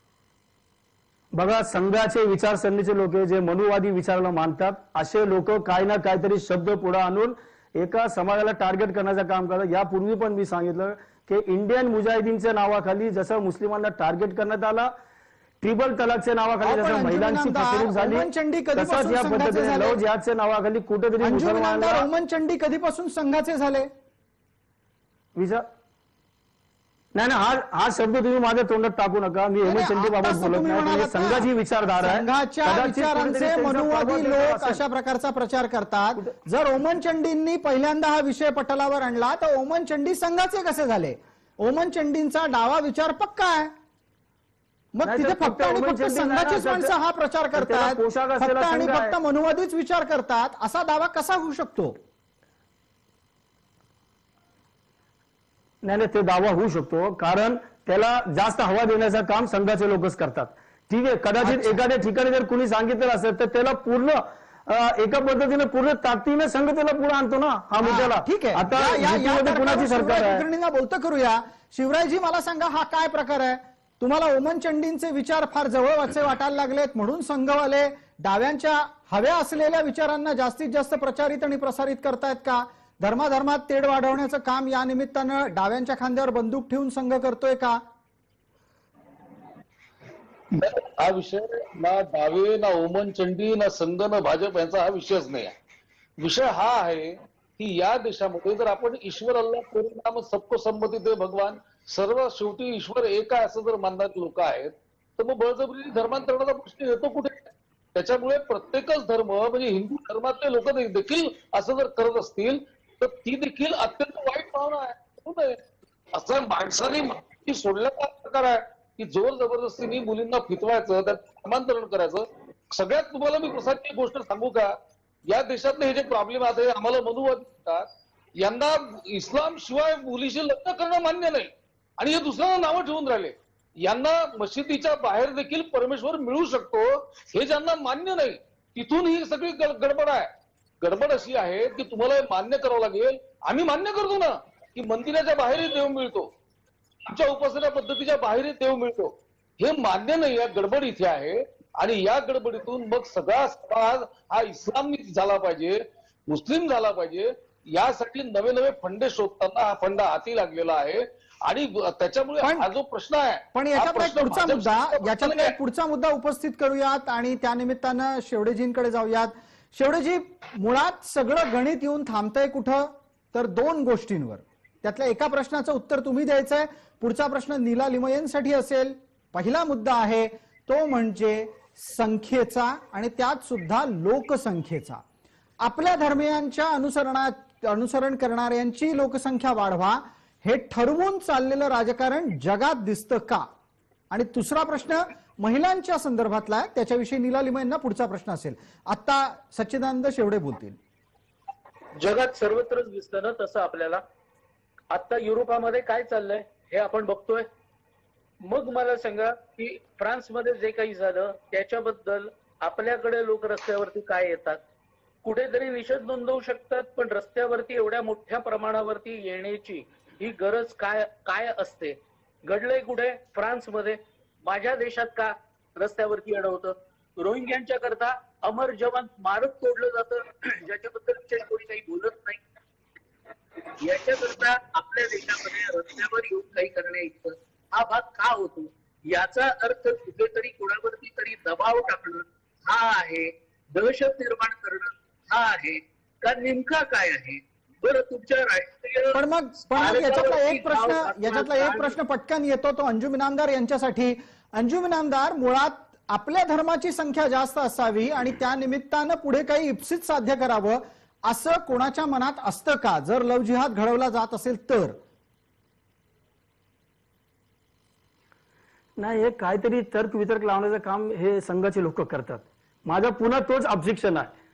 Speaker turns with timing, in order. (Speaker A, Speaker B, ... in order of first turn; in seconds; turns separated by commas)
Speaker A: 1.3-14.9, Speaker A: 15.6-22.1, Speaker B: 16.6-20.0, Speaker B: 21.2-23.9, Speaker A: 25.4-25.7, Speaker A: 27.1-34.8, Speaker B: 29.6-43.7, Speaker B: 44.9-52.0, Speaker A: 45.0-46.9, Speaker A: 47.5-49.1, Speaker A: 55.8-70.4, Speaker B: 61.4-61.8, Speaker B: 67.8-87.8, Speaker C: 90.5-95.5, Speaker C: 96.2-124.8, Speaker C: 125.3-127.9, Speaker C: 128.4-146.3, Speaker C: 147.1-165.6, Speaker B: 162.4-162.7, Speaker B: 163.5-185.0, Speaker B: 185.6-193.5, Speaker B: 194.1-200.8, Speaker D: 202.0-204.0, Speaker D: 204.9-207.5, Speaker D: 208.4-214.6, Speaker D: 215.2-232.4, Speaker D: 233.8-249.2, Speaker B: 249.1-265.0, Speaker D: 249.7-252.0, Speaker A: 269.0-274.3